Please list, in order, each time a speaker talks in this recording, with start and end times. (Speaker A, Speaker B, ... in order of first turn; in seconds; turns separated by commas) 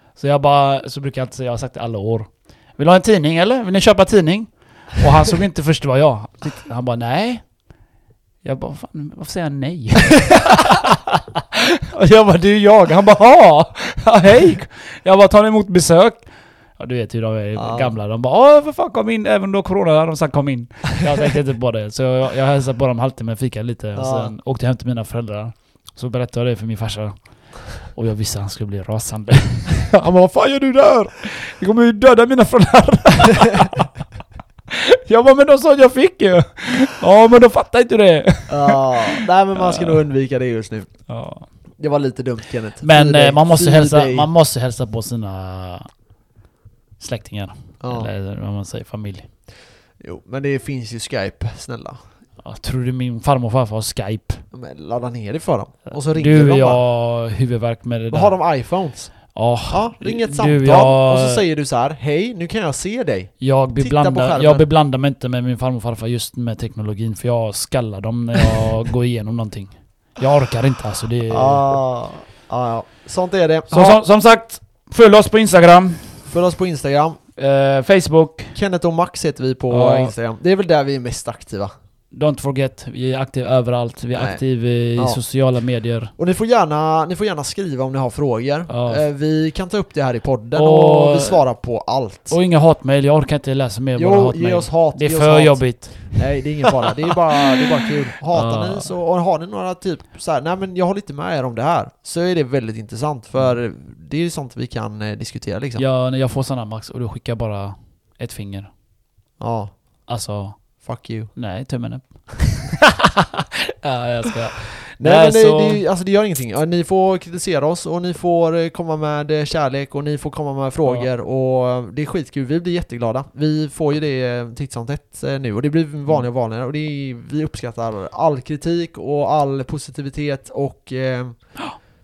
Speaker A: 0.1-7.5, Speaker A: 8.4-33.9, Speaker B: 17.6-17.9, Speaker B: 23.9-24.3, Speaker A: 34.7-40.0, Speaker B: 38.5-40.9, Speaker A: 41.1-41.5, Speaker B: 41.8-44.3, Speaker A: 42.8-45.9, Speaker A: 47.0-49.3, Speaker B: 47.8-48.1, Speaker B: 50.0-52.0, Speaker A: 52.4-54.4, Speaker B: 54.5-56.8, Speaker A: 55.9-58.4, Speaker B: 58.1-64.7, Speaker A: 59.3-61.4, Speaker A: 63.4-71.7, Speaker B: 71.3-74.0, Speaker A: 73.7-76.3, Speaker B: 76.3-77.2, Speaker A: 77.3-78.5, Speaker B: 78.5-81.7, Speaker A: 79.7-80.1, Speaker A: 82.1-86.1, Speaker B: 84.1-84.4, Speaker B: 86.2-92.4, Speaker A: 88.7-89.0, Speaker A: 90.5-91.4, Speaker A: 92.3-96.4, Speaker B: 94.0-105.8, Speaker A: 98.3-98.9, Speaker A: 105.8-108.7, Speaker B: 109.4-109.8, Speaker A: 110.1-110.8, Speaker B: 110.8-111.3, Speaker A: 111.3-115.8, Speaker B: 115.0-131.6